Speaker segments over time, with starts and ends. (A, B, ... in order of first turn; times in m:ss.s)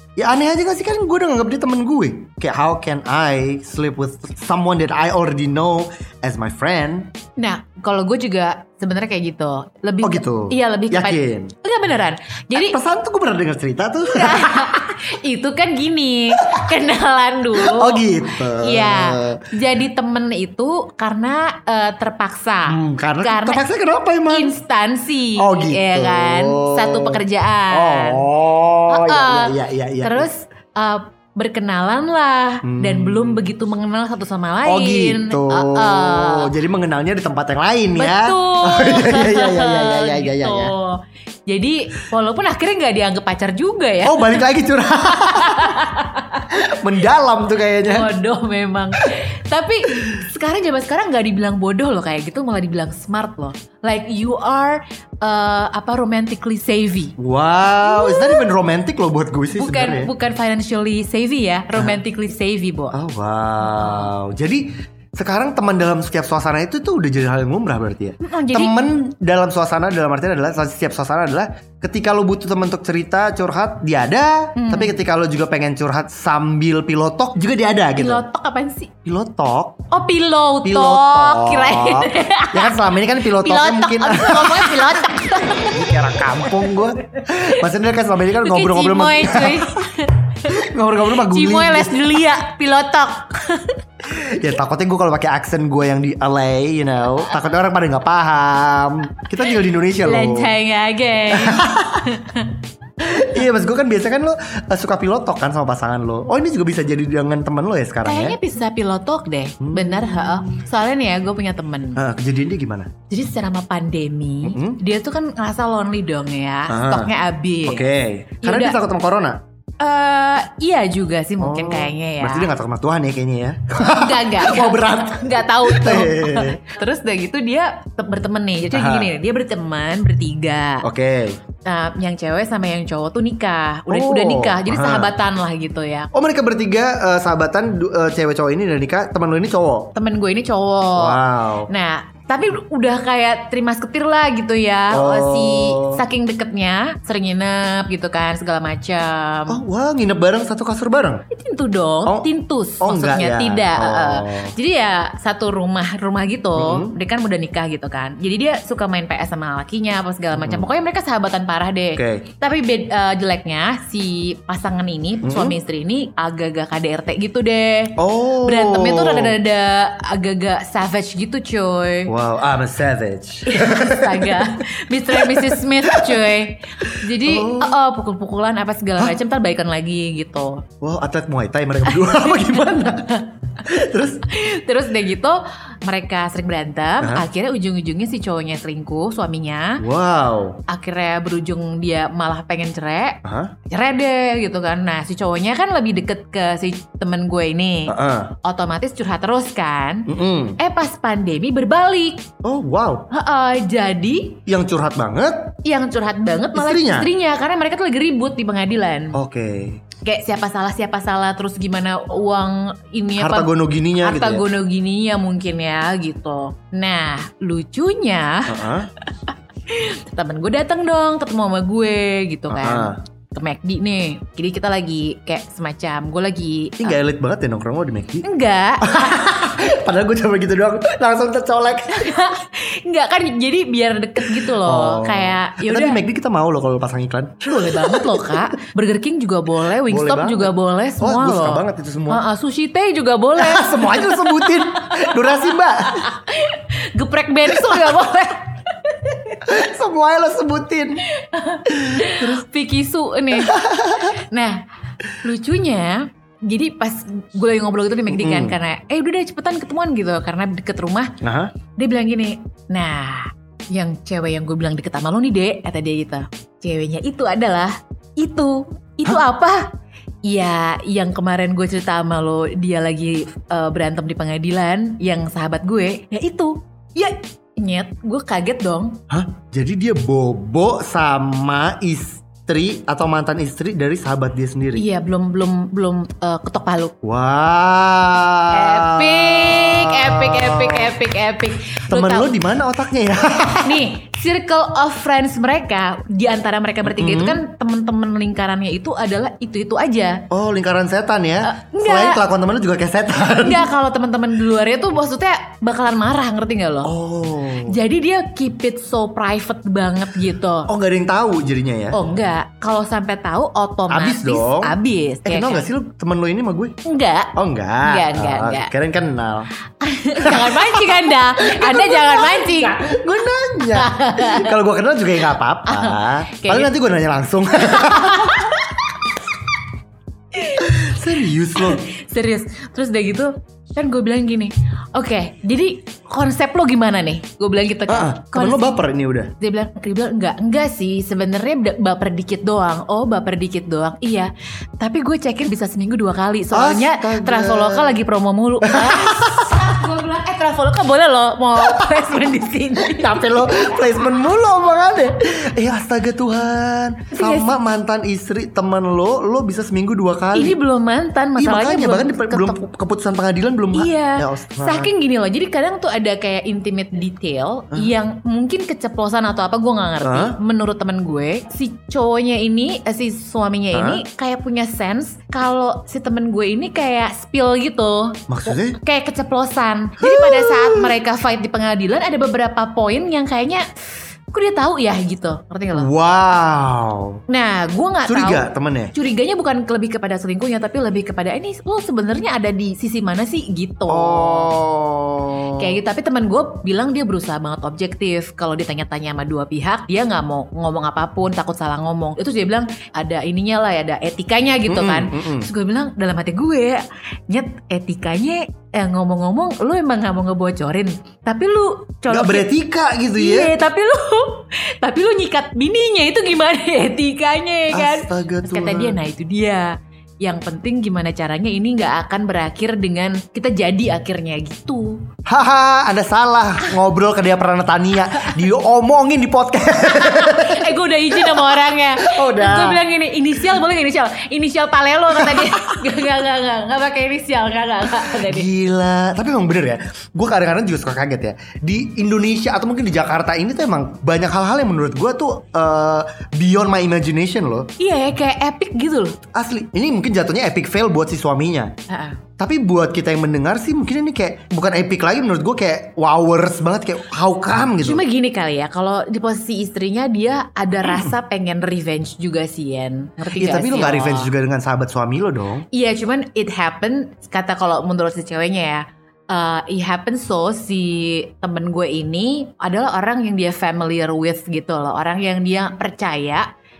0:00.2-0:07.1 A
0:07.4-0:12.8 B
0:10.0-0:11.5 A
0:12.5-0:14.8 A
0:14.0-0:23.6 B
0:16.3-0:16.7 A
0:17.5-0:19.4 A
0:22.7-0:24.5 A
0:24.3-0:28.3 B
0:25.4-0:30.3 A
0:28.9-0:36.5 B
0:32.6-0:33.4 A
0:34.6-0:40.7 A
0:37.9-0:44.4 B
0:44.0-0:45.8 A
0:45.1-0:46.5 B
0:46.5-0:48.1 A
0:47.8-0:57.1 B
0:57.2-1:00.1 A
0:57.8-0:58.5 B
0:59.5-1:03.0 B
1:01.7-1:02.0 A
1:02.9-1:18.2 A
1:03.6-1:04.1 B
1:08.2-1:08.7 B
1:14.6-1:15.0 B
1:18.0-1:18.9 B
1:19.0-1:19.8 A
1:19.9-1:25.9 B
1:20.6-1:29.8 A
1:26.4-1:26.8 B
1:28.4-1:30.5 B
1:30.5-1:32.1 A
1:31.1-1:33.8 B
1:34.1-1:40.5 A
1:40.0-1:42.6 B
1:41.3-1:42.1 A
1:43.0-1:48.4 A
1:48.0-1:52.0 B
1:49.6-1:50.5 A
1:52.0-1:52.9 A
1:53.1-1:57.8 B
1:54.4-1:54.8 A
1:56.7-1:57.1 A
1:57.6-1:59.4 A
1:58.4-1:58.8 B
1:59.8-2:02.5 B
2:01.4-2:06.6 A
2:03.9-2:10.8 B
2:08.7-2:09.1 A
2:10.8-2:11.4 A
2:11.6-2:16.1 B
2:13.9-2:15.1 A
2:16.1-2:19.9 A
2:19.9-2:29.6 B
2:21.0-2:21.7 A
2:24.9-2:26.0 A
2:29.5-2:31.2 A
2:31.3-2:52.1 B
2:32.8-2:34.5 A
2:36.6-2:36.9 A
2:40.3-2:40.7 A
2:42.0-2:42.3 A
2:45.2-2:45.6 A
2:48.0-2:49.4 A
2:52.1-2:56.2 A
2:53.5-3:00.6 B
2:56.8-2:57.7 A
3:00.8-3:04.2 A
3:01.9-3:03.3 B
3:04.3-3:09.8 B
3:07.0-3:07.2 A
3:09.8-3:10.6 A
3:10.7-3:22.2 B
3:13.2-3:13.5 A
3:17.9-3:18.3 A
3:20.1-3:20.6 A
3:22.4-3:23.1 A
3:23.1-3:24.4 B
3:24.5-3:25.5 A
3:25.6-3:29.2 B
3:26.5-3:27.1 A
3:29.1-3:29.8 A
3:30.0-3:38.6 B
3:33.2-3:34.4 A
3:38.5-3:38.9 A
3:39.2-3:47.0 B
3:42.5-3:43.0 A
3:46.8-3:48.2 A
3:48.2-3:49.4 B
3:48.8-3:52.1 A
3:51.9-3:56.0 B
3:54.2-3:58.4 A
3:57.4-4:09.4 B
3:59.8-4:02.2 A
4:03.4-4:06.1 A
4:07.5-4:07.9 A
4:09.4-4:11.0 A
4:11.2-4:14.6 B
4:11.7-4:12.4 A
4:13.3-4:14.2 A
4:15.2-4:21.1 B
4:18.1-4:18.6 A
4:21.2-4:21.5 A
4:21.8-4:29.7 B
4:30.3-4:39.0 B
4:39.1-4:44.8 A
4:44.7-4:46.9 B
4:47.0-4:50.9 A
4:48.5-4:52.3 B
4:51.9-4:53.9 A
4:53.6-5:00.2 B
4:56.8-4:57.4 A
5:00.3-5:03.7 A
5:01.4-5:02.2 B
5:03.4-5:06.9 B
5:06.8-5:07.7 A
5:07.7-5:10.7 B
5:10.7-5:12.0 A
5:11.9-5:15.6 B
5:13.9-5:16.7 A
5:16.8-5:18.7 B
5:17.4-5:19.5 A
5:19.8-5:23.0 B
5:20.2-5:20.8 A
5:21.4-5:28.5 A
5:23.7-5:24.5 B
5:25.7-5:26.7 B
5:27.7-5:28.8 B
5:30.3-5:38.7 B
5:30.6-5:31.8 A
5:37.9-5:39.3 A
5:39.4-5:53.7 B
5:46.5-5:48.0 A
5:48.6-5:49.6 A
5:52.8-6:00.6 A
5:57.1-5:57.6 B
6:00.3-6:02.6 B
6:01.4-6:04.9 A
6:03.7-6:25.9 B
6:10.0-6:10.4 A
6:13.7-6:14.0 A
6:18.3-6:18.8 A
6:20.0-6:20.9 A
6:25.7-6:27.2 A
6:27.3-6:34.5 B
6:28.0-6:28.9 A
6:33.9-6:35.8 A
6:35.6-6:52.5 B
6:44.7-6:45.5 A
6:52.1-6:53.5 A
6:53.1-7:05.0 B
6:57.7-6:59.0 A
7:05.2-7:12.8 A
7:09.8-7:18.5 B
7:15.1-7:15.8 A
7:17.9-7:27.7 A
7:27.8-7:29.2 B
7:29.3-7:31.7 A
7:31.9-7:32.2 B
7:32.4-7:38.0 A
7:37.8-7:44.3 B
7:43.4-7:45.6 A
7:45.7-7:56.5 B